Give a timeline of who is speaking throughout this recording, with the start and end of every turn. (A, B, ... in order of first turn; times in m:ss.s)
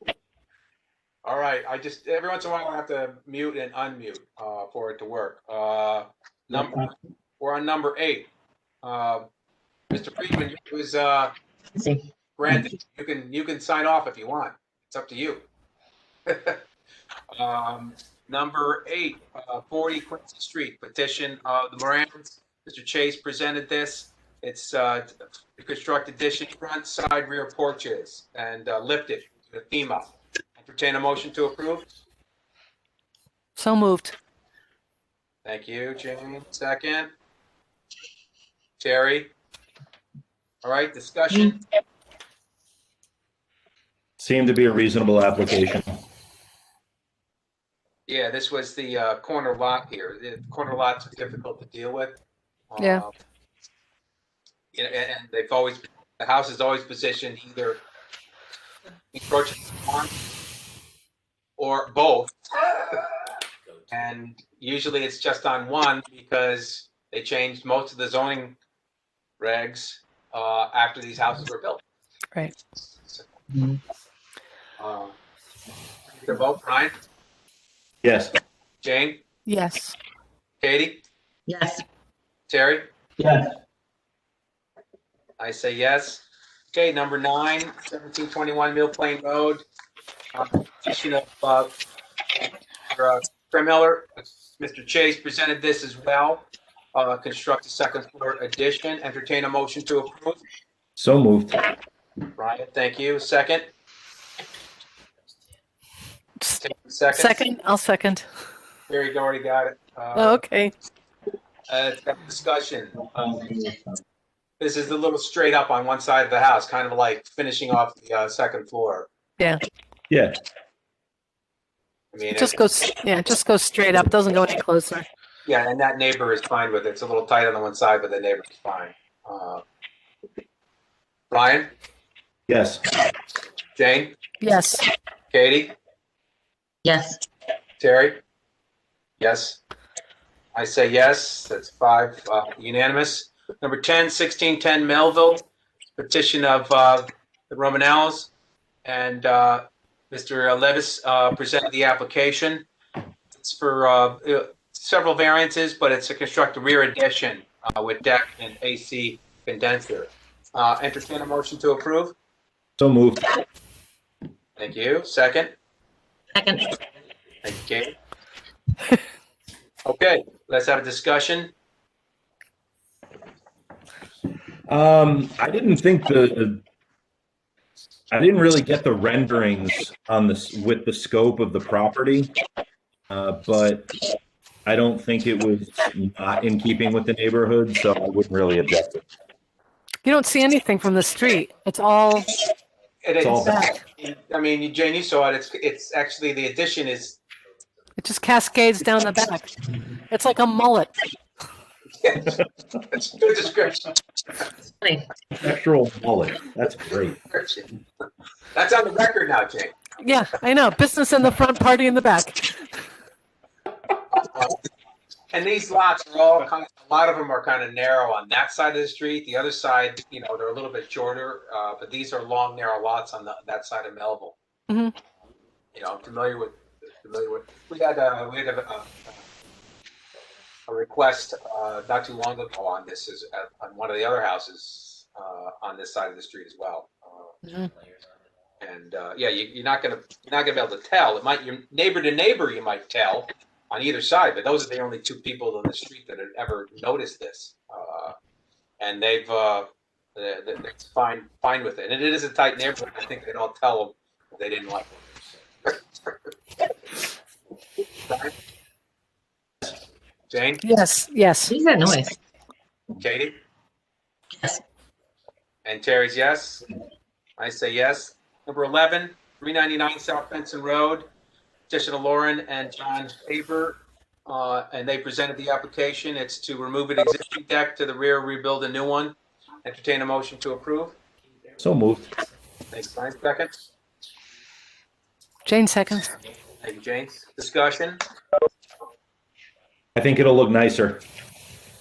0:01.2-0:08.3 A
0:08.8-0:09.3 A
0:09.9-0:11.3 A
0:11.8-0:12.7 B
0:12.4-0:15.4 A
0:16.3-0:16.6 A
0:17.3-0:31.9 A
0:33.6-0:34.1 C
0:35.4-0:37.1 A
0:38.8-0:39.3 A
0:40.6-0:41.6 A
0:44.2-0:46.0 D
0:48.1-0:52.2 A
0:52.7-0:53.1 A
0:52.8-0:53.0 C
0:54.7-0:57.8 A
0:59.1-1:00.1 A
1:01.6-1:03.1 A
1:03.9-1:08.6 A
1:09.4-1:11.8 A
1:13.5-1:13.8 B
1:14.8-1:15.1 A
1:16.1-1:16.9 A
1:18.0-1:18.3 D
1:18.8-1:19.2 A
1:19.4-1:20.0 C
1:20.6-1:21.0 A
1:21.5-1:21.8 B
1:22.5-1:22.8 A
1:25.4-1:29.6 A
1:30.3-1:31.7 A
1:32.9-1:40.4 A
1:41.0-1:41.7 D
1:42.4-1:43.7 A
1:46.6-1:47.4 A
1:47.1-1:48.2 C
1:48.9-1:50.4 A
1:50.1-1:50.7 C
1:51.7-1:53.0 A
1:53.1-1:53.8 D
1:54.6-1:59.1 A
2:00.1-2:00.4 D
2:02.1-2:02.6 A
2:02.3-2:05.1 C
2:05.4-2:09.6 A
2:11.3-2:11.7 A
2:12.5-2:12.8 D
2:13.8-2:14.1 A
2:14.4-2:14.8 C
2:15.3-2:15.7 A
2:16.8-2:17.2 B
2:17.8-2:18.2 A
2:19.2-2:19.6 A
2:20.5-2:25.4 A
2:26.0-2:28.3 A
2:28.8-2:32.7 A
2:33.3-2:42.1 A
2:42.8-2:43.3 D
2:44.6-2:45.5 A
2:46.3-2:46.8 B
2:47.4-2:47.9 A
2:49.8-2:51.5 A
2:54.7-2:56.6 D
2:58.1-3:02.3 D
3:03.1-3:04.0 D
3:04.7-3:09.0 D
3:10.0-3:12.4 C
3:13.0-3:17.2 A
3:13.2-3:13.6 D
3:18.0-3:19.5 C
3:20.1-3:20.9 C
3:22.0-3:22.4 A
3:22.9-3:24.0 A
3:25.4-3:27.2 D
3:27.3-3:27.7 A
3:28.5-3:29.8 A
3:30.0-3:32.6 C
3:34.1-3:34.6 A
3:35.3-3:44.4 A
3:44.7-3:44.9 C
3:45.7-3:49.2 A
3:50.7-3:57.3 A
3:57.4-3:57.7 C
3:58.6-4:08.1 A
4:08.8-4:15.3 A
4:18.1-4:18.3 A
4:20.3-4:20.6 A
4:20.6-4:21.5 C
4:21.5-4:22.2 B
4:23.0-4:23.4 A
4:24.4-4:24.6 B
4:25.6-4:26.6 A
4:27.4-4:31.1 A
4:31.7-4:41.0 A
4:41.6-4:42.1 D
4:42.7-4:43.5 A
4:45.4-4:46.1 C
4:46.6-4:48.0 A
4:50.0-4:51.0 D